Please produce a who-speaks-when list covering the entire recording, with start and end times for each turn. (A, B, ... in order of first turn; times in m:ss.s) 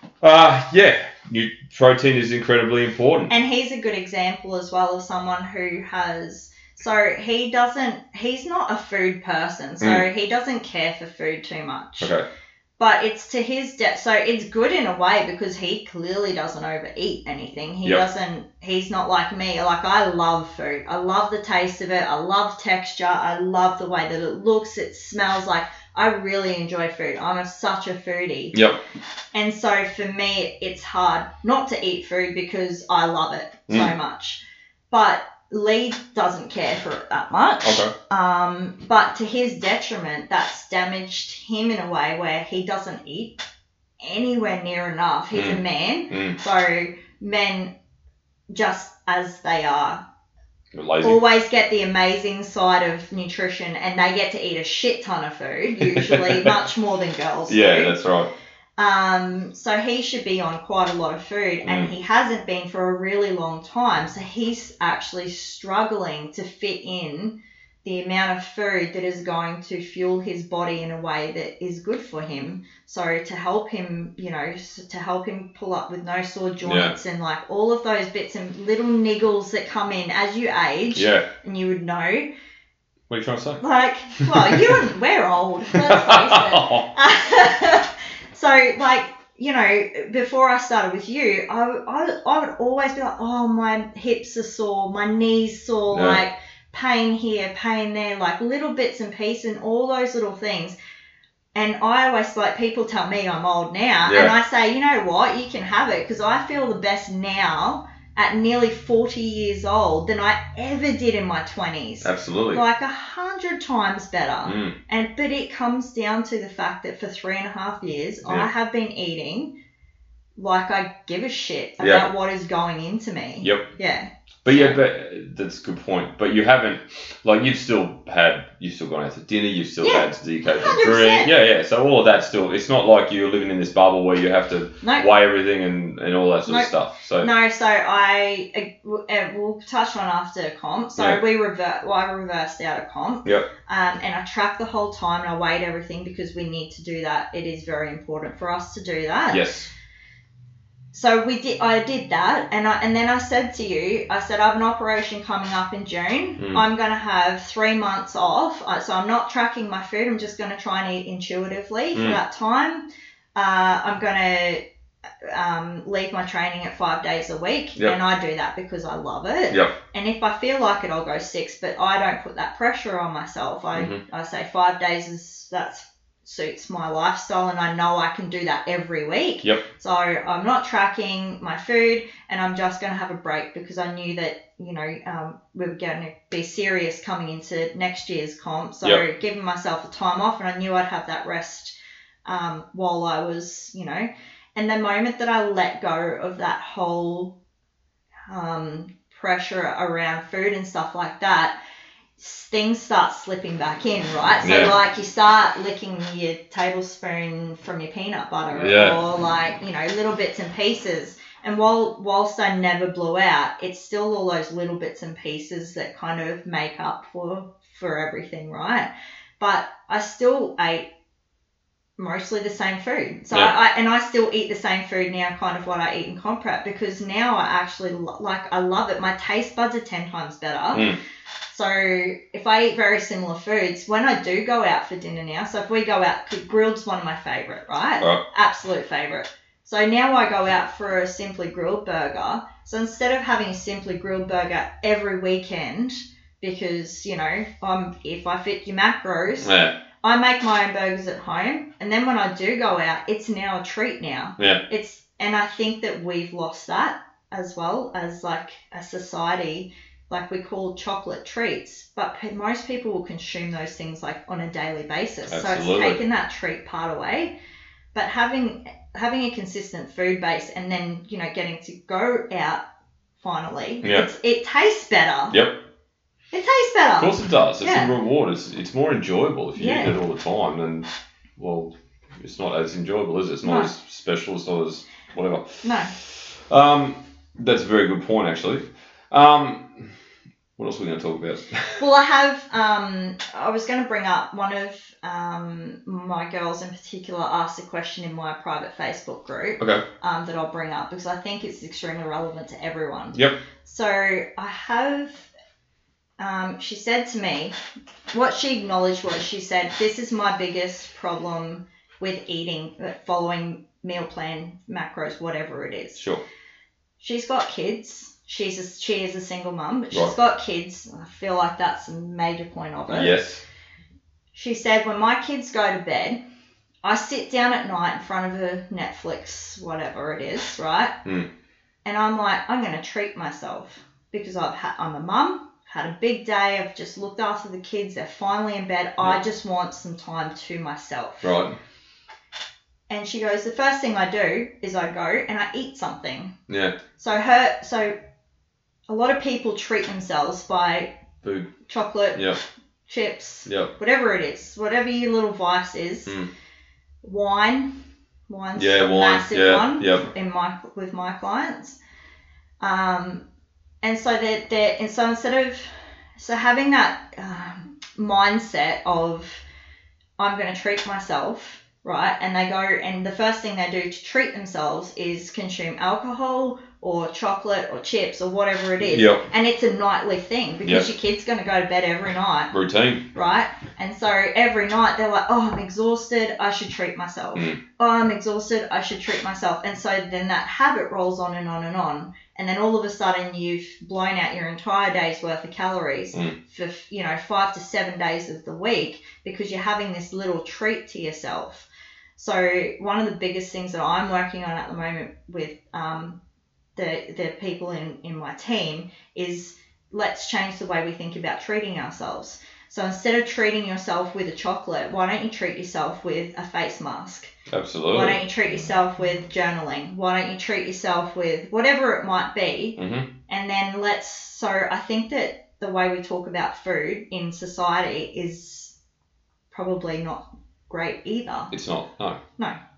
0:00.2-0:03.3 A
0:03.3-0:12.1 B
0:12.0-0:12.2 A
0:12.8-0:28.6 B
0:28.5-0:28.8 A
0:29.3-0:43.4 B
0:37.6-0:37.9 A
0:44.0-0:47.7 B
0:45.3-0:46.4 A
0:48.5-0:50.0 B
0:50.7-0:51.2 A
0:51.0-0:58.0 B
0:55.8-0:56.6 A
0:57.5-0:58.3 A
0:58.8-1:22.3 B
1:01.6-1:01.9 A
1:16.6-1:17.0 A
1:21.0-1:21.3 A
1:23.1-1:23.6 A
1:23.6-1:40.8 B
1:24.2-1:24.6 A
1:25.8-1:26.9 A
1:35.9-1:36.2 A
1:41.6-1:59.6 B
1:44.1-1:44.3 A
1:52.0-1:52.6 A
1:54.4-1:54.8 A
2:00.4-2:04.8 B
2:01.8-2:02.1 A
2:03.4-2:03.7 A
2:04.4-2:17.3 A
2:09.8-2:11.3 B
2:16.5-2:29.4 B
2:29.3-2:29.7 A
2:30.9-2:44.6 B
2:42.0-2:42.2 A
2:45.2-3:11.8 B
2:53.7-2:54.0 A
3:12.3-3:17.4 B
3:18.3-3:21.6 B
3:22.2-3:38.9 B
3:24.4-3:24.7 A
3:28.5-3:29.0 A
3:39.4-3:40.9 B
3:42.0-3:50.9 B
3:50.7-3:51.0 A
3:51.5-4:27.4 B
4:09.4-4:09.8 A
4:14.4-4:14.6 A
4:25.3-4:26.0 A
4:27.9-4:32.6 B
4:33.2-4:35.4 B
4:35.3-4:35.7 A
4:36.3-4:37.9 B
4:37.0-4:49.9 A
4:39.6-4:40.0 B
4:43.4-4:43.7 B
4:45.6-4:45.9 B
4:50.6-4:51.8 A
4:51.8-5:05.3 B
4:59.6-4:59.8 A
5:03.1-5:03.4 A
5:06.2-5:07.6 B
5:08.1-5:16.0 B
5:16.0-5:16.2 A
5:17.0-5:23.2 B
5:22.9-5:23.4 A
5:24.3-5:26.2 B
5:26.8-5:31.0 B
5:31.8-5:41.4 B
5:41.2-5:41.6 A
5:42.9-5:46.4 B
5:46.5-5:46.8 A
5:47.0-5:48.0 B
5:48.9-5:51.0 B
5:51.2-5:51.5 A
5:51.7-5:52.3 B
5:52.2-5:52.4 A
5:52.9-5:56.2 B
5:53.5-5:53.7 A
5:56.1-5:56.3 A
5:57.0-5:57.8 B
5:58.3-6:01.8 B
5:58.6-6:00.1 A
6:02.6-6:03.2 B
6:03.8-6:09.4 B
6:10.2-6:22.5 B
6:18.8-6:19.2 A
6:22.5-6:23.1 A
6:23.1-6:46.2 B
6:46.8-6:57.3 B
6:57.5-6:58.2 A
6:57.9-7:08.7 B
7:02.8-7:03.1 A
7:09.5-7:11.5 B
7:11.5-7:12.2 A